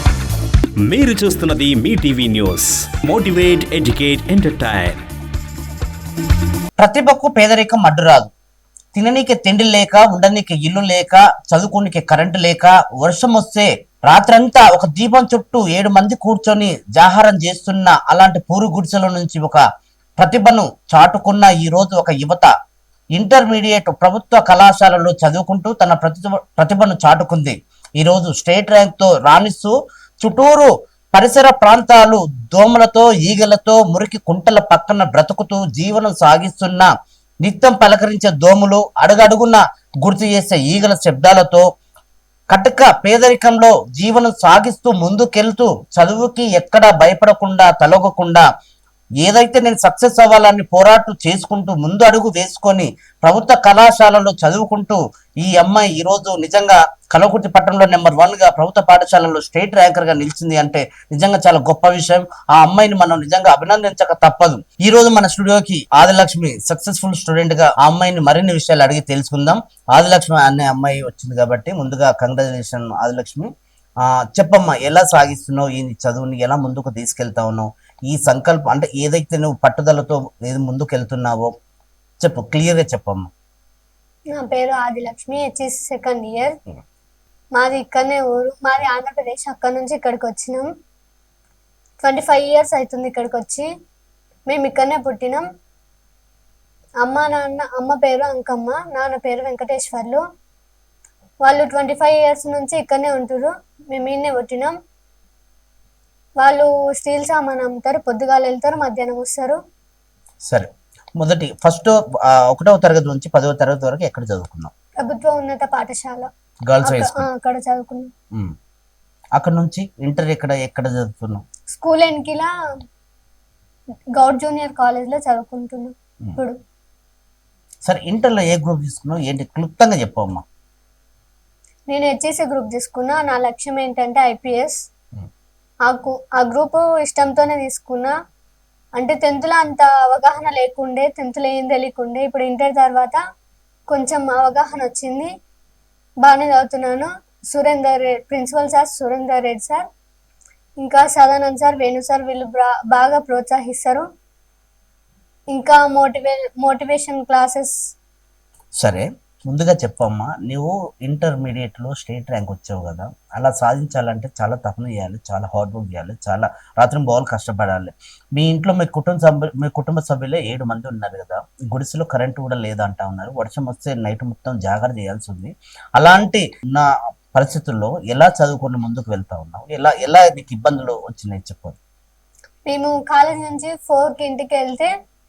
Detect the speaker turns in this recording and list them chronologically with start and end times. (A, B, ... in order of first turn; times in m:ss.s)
0:00.8-0:05.0 A
0:06.8-0:08.3 B
0:08.9-0:19.6 B
0:20.2-0:22.5 B
0:23.2-0:36.9 B
0:37.4-0:41.7 B
0:42.5-0:48.4 B
0:49.2-1:13.5 B
1:14.0-1:21.5 B
1:22.2-1:23.3 B
1:24.3-1:26.6 C
1:27.6-1:30.7 C
1:32.0-1:33.7 C
1:34.5-1:35.5 C
1:37.0-1:40.2 C
1:41.4-1:44.8 C
1:46.4-1:49.6 C
1:50.5-1:54.7 B
1:55.0-1:56.3 C
1:56.7-1:57.3 B
1:56.8-1:58.1 C
1:59.4-2:01.4 B
2:01.7-2:02.5 C
2:04.2-2:06.6 C
2:07.8-2:10.4 B
2:11.9-2:14.8 C
2:15.9-2:18.1 C
2:19.0-2:23.2 C
2:23.9-2:25.3 C
2:26.2-2:29.8 C
2:30.8-2:34.0 C
2:35.5-2:37.8 C
2:38.8-3:01.8 B
3:02.7-3:04.9 C